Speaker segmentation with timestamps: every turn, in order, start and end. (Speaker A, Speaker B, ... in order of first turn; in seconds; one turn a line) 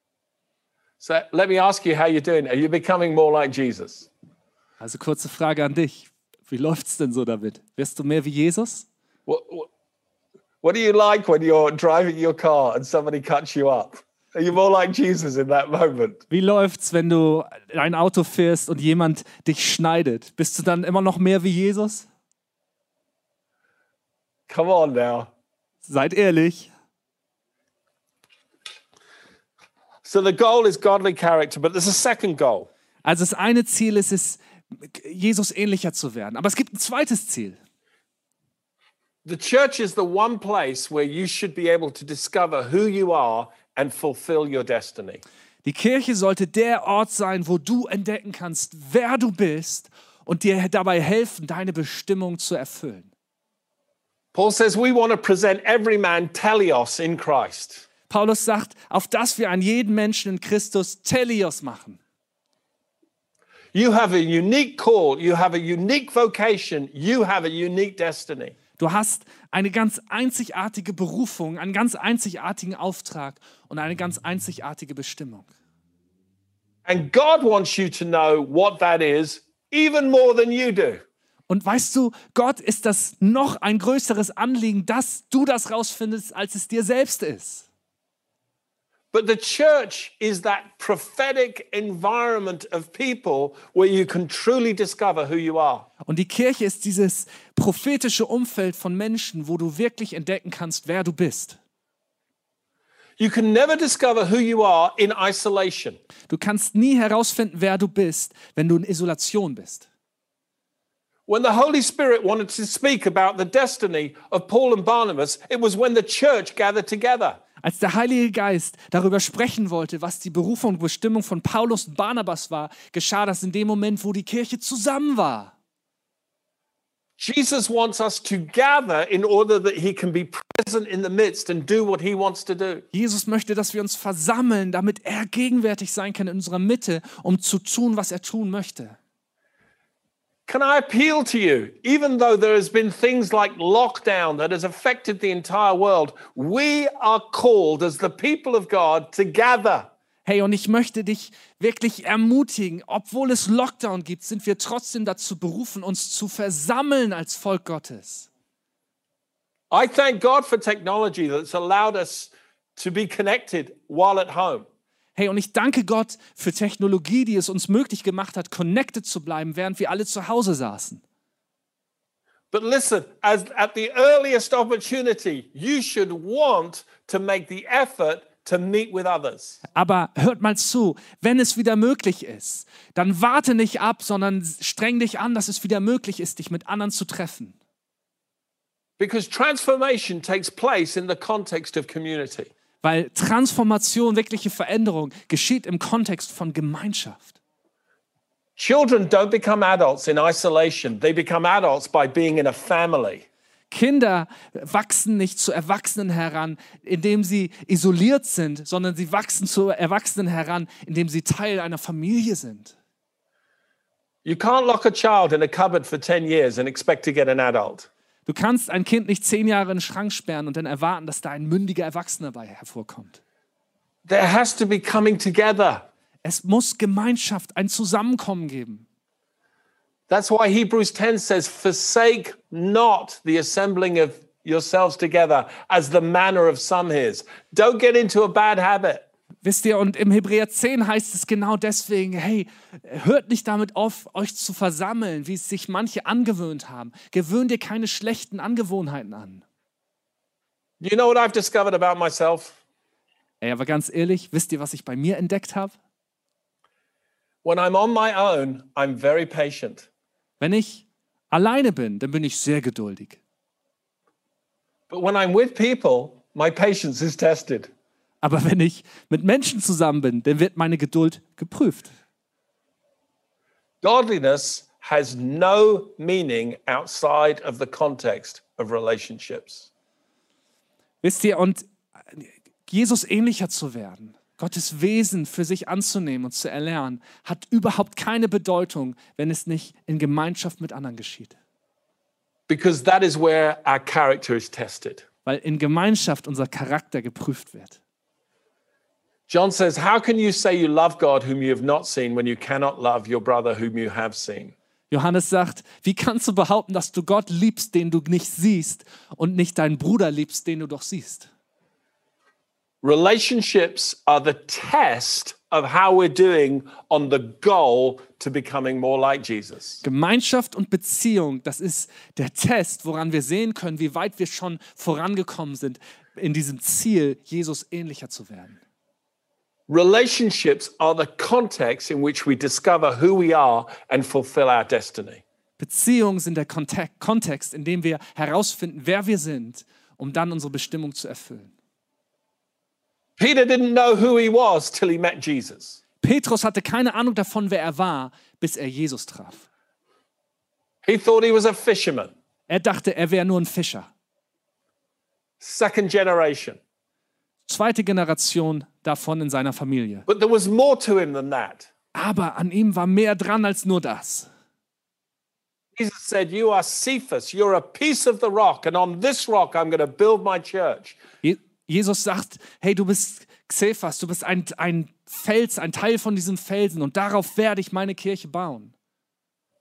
Speaker A: 1.0-4.1
Speaker B: 4.8-8.9
Speaker A: 9.2-9.7
Speaker A: 10.6-16.2
Speaker B: 16.3-22.1
Speaker A: 24.5-25.3
Speaker B: 25.9-26.7
Speaker A: 30.0-32.7
Speaker B: 33.0-37.6
Speaker A: 39.2-45.2
Speaker B: 45.6-53.1
Speaker A: 54.3-57.9
Speaker B: 58.1-62.0
Speaker A: 63.7-68.5
Speaker B: 68.8-75.5
Speaker A: 76.8-81.0
Speaker B: 81.5-87.7
Speaker A: 89.1-95.9
Speaker B: 96.0-101.6
Speaker A: 103.2-106.0
Speaker B: 106.3-109.8
Speaker A: 111.3-117.4
Speaker B: 117.6-125.5
Speaker A: 127.2-132.8
Speaker B: 132.9-139.0
Speaker A: 140.5-149.9
Speaker B: 150.2-158.3
Speaker A: 159.7-164.7
Speaker B: 165.2-171.0
Speaker A: 172.5-179.6
Speaker B: 179.7-187.6
Speaker A: 189.0-192.5
Speaker B: 192.8-197.3
Speaker A: 198.6-203.2
Speaker B: 203.7-212.7
Speaker A: 214.2-217.9
Speaker B: 218.3-223.2
Speaker A: 224.1-225.8
Speaker B: 226.2-228.8
Speaker A: 230.1-239.0
Speaker B: 239.4-249.4
Speaker A: 250.8-252.6
Speaker B: 253.4-255.7
Speaker A: 257.4-259.9
Speaker B: 260.4-263.2
Speaker A: 264.9-267.7
Speaker B: 268.2-271.9
Speaker A: 273.8-279.7
Speaker B: 281.0-291.4
Speaker A: 292.5-295.0
Speaker B: 295.2-297.8
Speaker A: 299.3-304.5
Speaker B: 304.9-311.3
Speaker A: 312.8-319.8
Speaker B: 319.8-328.6
Speaker A: 329.7-335.2
Speaker B: 335.6-341.5
Speaker A: 343.2-345.8
Speaker B: 346.0-349.4
Speaker A: 350.8-352.1
Speaker B: 352.5-353.9
Speaker A: 355.4-356.6
Speaker B: 357.5-360.1
Speaker A: 360.1-361.7
Speaker B: 361.9-364.3
Speaker A: 365.8-371.0
Speaker B: 371.2-378.7